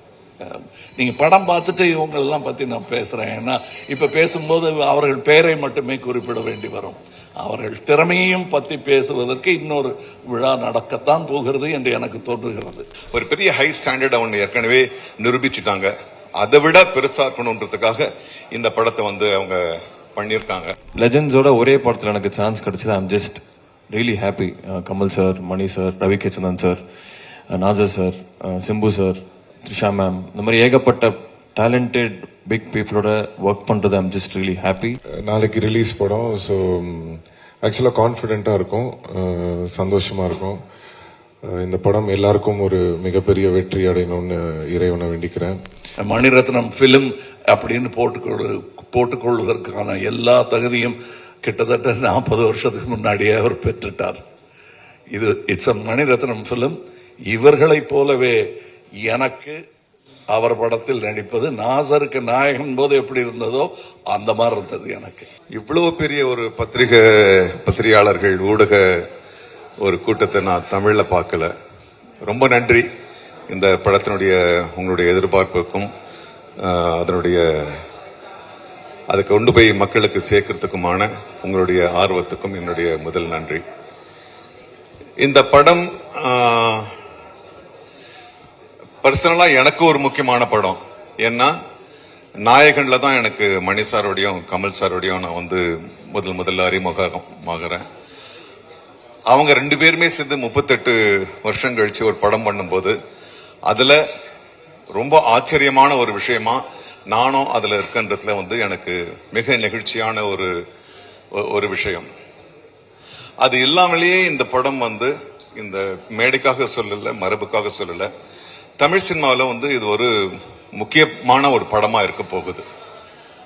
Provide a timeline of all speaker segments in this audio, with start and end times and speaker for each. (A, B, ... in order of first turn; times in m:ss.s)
0:00.4-0:12.8 A
0:13.1-0:19.6 B
0:20.1-0:20.7 B
0:21.0-0:26.8 C
0:27.5-0:35.0 C
0:35.2-0:40.6 D
0:41.5-0:45.6 D
0:46.0-0:54.2 A
0:55.1-0:56.8 A
0:57.3-0:58.4 A
0:59.0-0:59.6 A
1:00.3-1:05.3 A
1:05.5-1:09.0 B
1:09.8-1:11.5 B
1:12.2-1:12.9 B
1:13.5-1:15.9 B
1:16.6-1:17.8 B
1:19.1-1:23.6 B
1:25.2-1:26.9 B
1:29.0-1:31.5 B
1:32.4-1:37.8 B
1:39.3-1:42.9 B
1:43.6-1:44.0 B
1:44.9-1:50.5 B
1:51.4-1:52.1 B
1:53.4-1:58.1 B
1:58.8-2:00.1 B
2:00.7-2:02.6 B